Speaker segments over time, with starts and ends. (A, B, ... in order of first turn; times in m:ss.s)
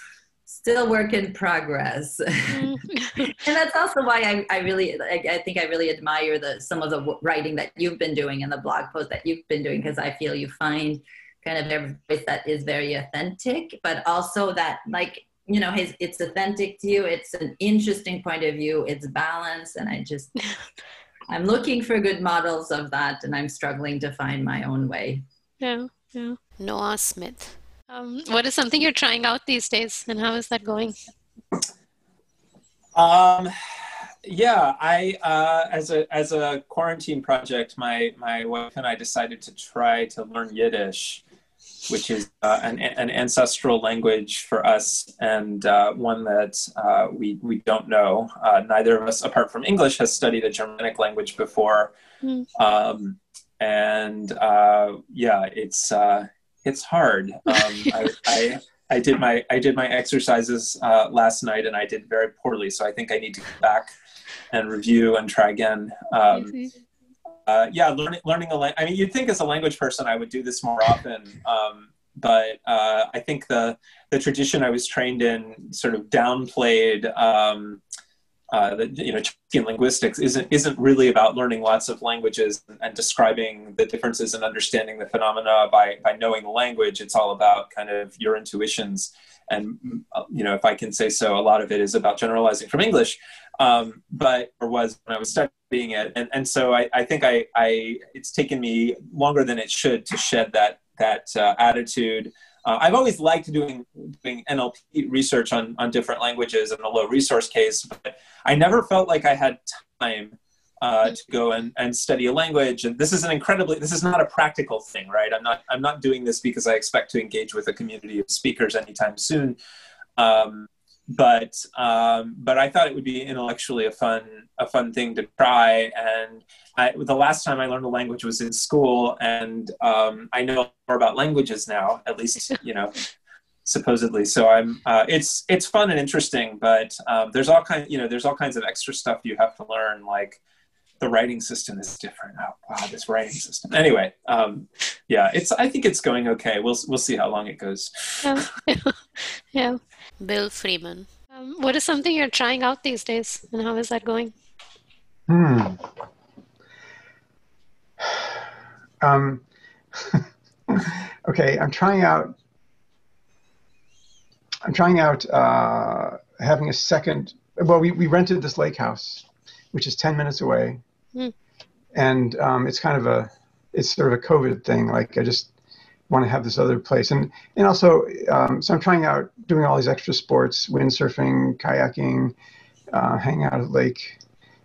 0:00.5-0:02.7 A
0:02.5-0:03.4 B
0:03.3-0:20.3 A
0:21.3-0:25.2 A
0:25.6-0:26.4 B
0:26.6-0:27.6 C
0:27.9-0:30.9 B
0:32.9-0:33.5 D
0:34.2-0:41.2 D
0:41.9-0:51.9 D
0:52.6-1:03.9 D
0:57.5-0:57.9 B
1:04.5-1:06.6 D
1:06.3-1:06.6 B
1:07.5-1:17.8 D
1:18.5-1:59.6 D
2:00.2-2:13.0 D
2:13.6-2:20.4 D
2:21.0-2:28.4 D
2:28.2-2:29.8 B
2:30.2-2:31.1 C
2:31.3-2:34.3 B
2:35.3-2:35.8 E
2:39.0-2:39.4 E
2:40.1-2:42.3 E
2:44.6-2:50.8 E
2:51.9-2:55.5 E
2:56.1-3:02.3 E
3:02.9-3:04.2 E